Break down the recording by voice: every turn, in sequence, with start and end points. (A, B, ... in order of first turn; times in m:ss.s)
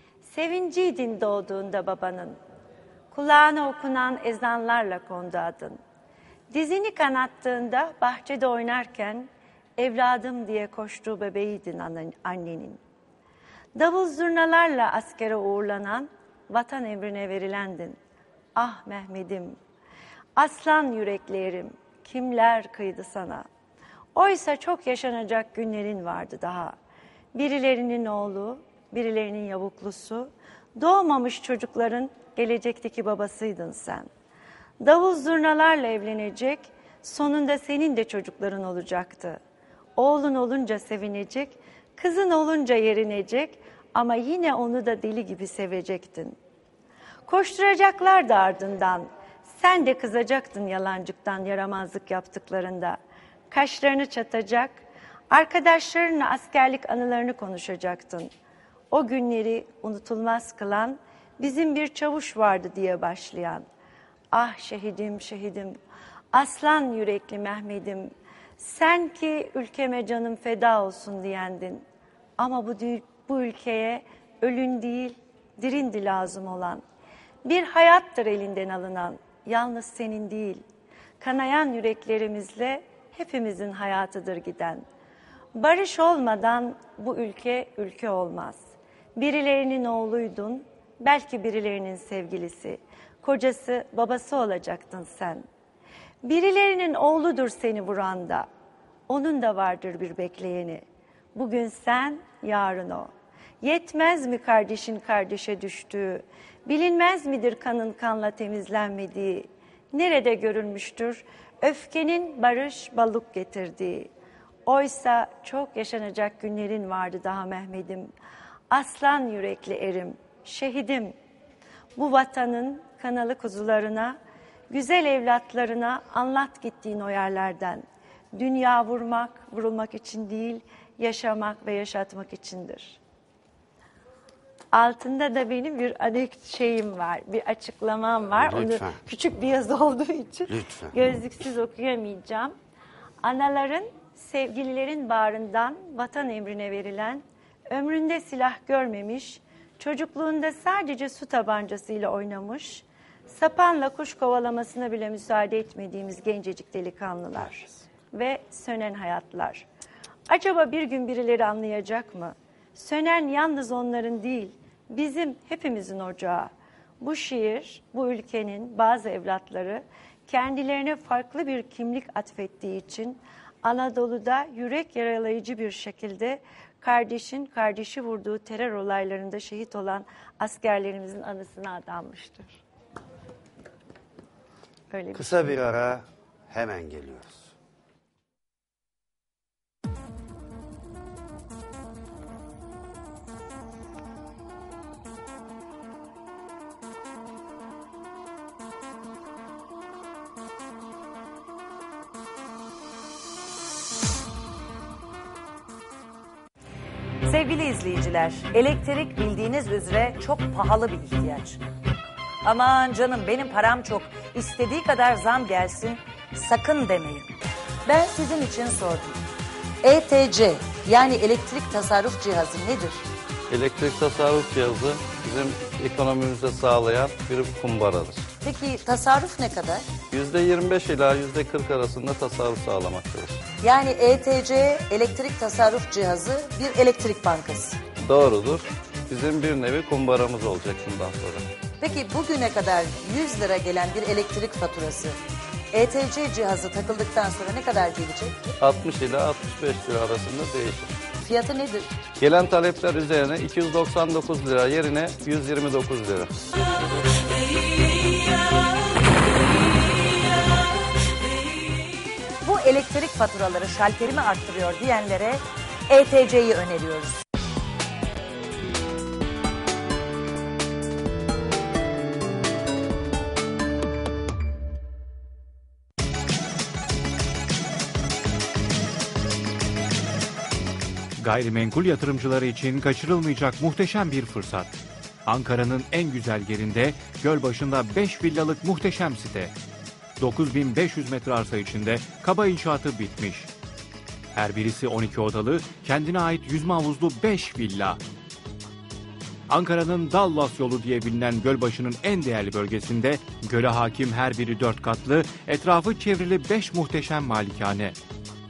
0:00.2-0:02.4 A
0:03.1-0:05.8 A
0:06.5-0:12.8 A
0:13.8-0:18.0 A
0:18.5-0:19.6 A
0:20.4-0:23.5 A
0:24.1-0:26.8 A
0:27.3-0:34.1 A
0:34.8-0:39.4 A
0:40.0-0:46.4 A
0:47.2-0:53.0 A
0:53.5-0:54.8 A
0:55.3-0:58.3 A
0:58.9-1:03.7 A
1:04.3-1:05.8 A
1:06.3-1:11.8 A
1:12.4-1:16.8 A
1:17.4-1:20.6 A
1:21.2-1:24.8 A
1:25.5-1:28.6 A
1:29.2-1:35.4 A
1:36.2-1:38.5 A
1:39.1-1:40.8 A
1:41.3-1:54.1 A
1:54.7-1:58.1 A
1:58.7-2:01.1 A
2:02.0-2:04.2 A
2:04.7-2:13.0 A
2:14.7-2:22.5 A
2:18.3-2:19.0 B
2:20.5-2:20.9 B
2:23.2-2:39.6 A
2:40.3-3:02.6 A
3:04.9-3:05.6 A
3:05.1-3:07.5 B
3:27.2-3:31.6 C
3:32.4-3:37.3 C
3:37.9-3:39.2 C
3:39.8-3:43.0 C
3:43.5-3:48.3 D
3:48.4-3:49.9 C
3:50.1-3:53.4 D
3:53.6-3:57.8 C
3:58.1-4:01.5 D
4:01.8-4:05.2 C
4:05.7-4:08.4 C
4:08.6-4:11.0 D
4:11.1-4:11.9 C
4:12.2-4:16.3 D
4:22.4-4:27.2 C
4:41.2-4:49.5 E
4:50.2-4:53.5 E
4:54.3-4:58.0 E
4:59.5-5:08.0 E